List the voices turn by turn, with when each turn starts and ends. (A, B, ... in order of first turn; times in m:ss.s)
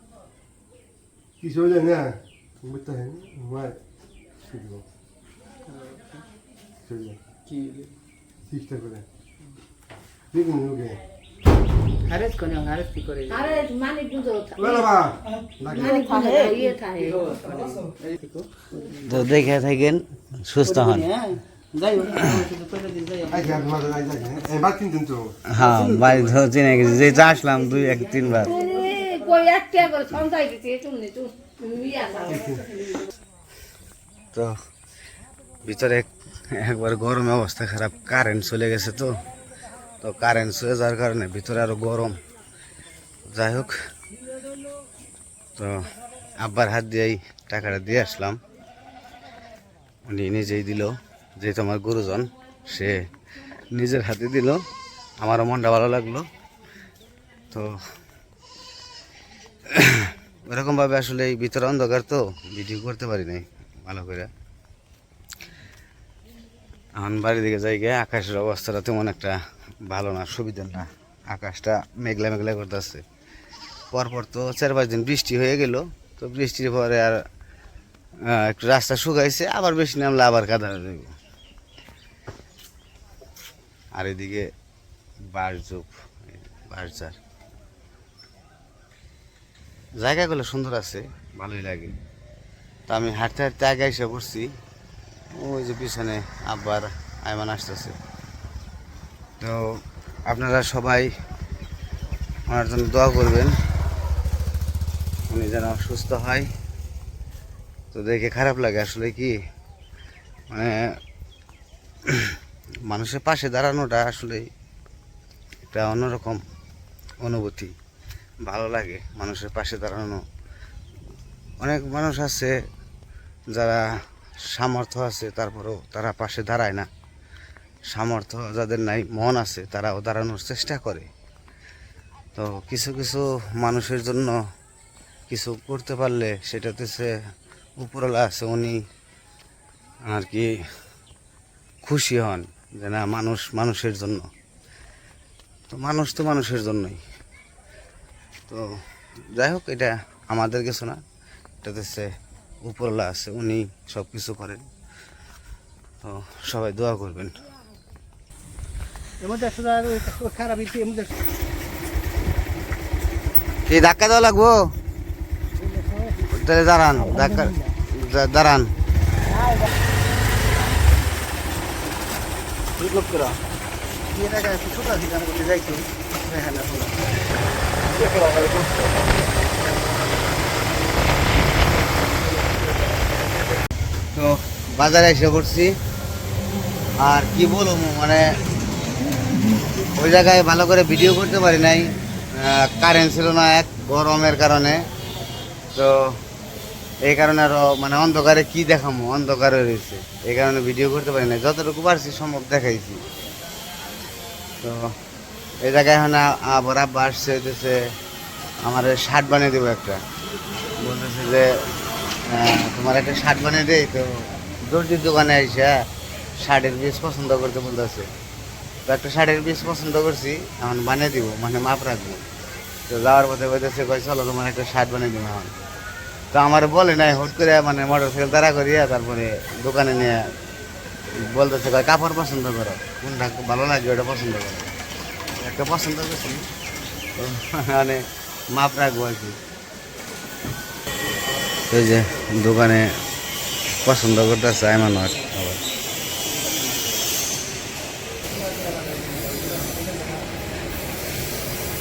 0:01.4-0:03.8 A
0:04.5-0:04.8 A
0:05.7-0:06.2 B
0:06.8-0:07.2 A
0:07.5-0:07.9 C
0:08.5-0:09.0 A
0:10.3-0:11.0 A
0:12.0-0:13.7 B
0:13.3-0:14.9 D
0:14.6-0:16.0 A
0:15.7-0:17.5 D
0:15.7-0:19.3 B
0:17.2-0:17.8 C
0:19.1-0:21.0 E
0:20.6-0:23.8 B
0:23.3-0:25.4 A
0:25.5-0:28.5 E
0:25.6-0:26.4 B
0:27.3-0:29.3 B
0:28.4-0:32.6 D
0:32.2-0:32.6 A
0:35.6-0:39.2 E
0:40.0-0:42.2 E
0:43.2-0:43.7 E
0:45.6-0:48.4 E
0:50.1-0:53.0 E
0:53.7-0:54.6 E
0:55.2-0:56.2 E
0:59.7-1:04.3 E
1:07.0-1:13.0 E
1:13.9-1:17.2 E
1:18.2-1:21.1 E
1:23.9-1:24.5 E
1:25.3-1:27.2 E
1:30.0-1:31.9 E
1:32.9-1:34.5 E
1:35.4-1:38.0 E
1:40.3-1:41.1 E
1:42.5-1:43.6 E
1:45.3-1:46.5 E
1:47.9-1:49.4 E
1:52.1-1:52.4 E
1:52.9-1:54.5 E
1:55.7-1:56.4 E
1:57.2-1:57.7 E
1:58.4-2:00.2 E
2:01.6-2:02.6 E
2:03.5-2:03.8 E
2:04.4-2:06.9 E
2:07.9-2:11.1 E
2:12.4-2:14.4 E
2:15.3-2:17.1 E
2:17.8-2:18.8 E
2:20.1-2:20.5 E
2:21.8-2:24.3 E
2:25.7-2:27.0 E
2:29.3-2:31.0 E
2:31.6-2:32.1 E
2:32.6-2:34.6 E
2:36.0-2:37.4 E
2:39.2-2:41.1 B
2:43.6-2:44.6 E
2:45.6-2:46.1 B
2:46.3-2:48.7 E
2:47.0-2:47.7 B
2:52.8-2:53.3 B
2:52.8-2:53.2 C
2:54.1-2:57.0 B
2:57.9-2:58.9 C
3:04.1-3:05.8 E
3:07.0-3:08.3 E
3:10.0-3:14.8 E
3:17.0-3:23.0 E
3:24.6-3:24.9 E
3:25.6-3:27.8 E
3:28.6-3:30.0 E
3:30.8-3:31.5 E
3:32.3-3:34.1 E
3:34.6-3:35.7 E
3:36.4-3:38.1 E
3:38.9-3:42.2 E
3:42.9-3:45.5 E
3:46.3-3:50.2 E
3:51.2-3:54.7 E
3:55.4-3:56.4 E
3:57.2-3:59.4 E
4:01.7-4:02.9 E
4:03.8-4:05.6 E
4:08.3-4:10.3 B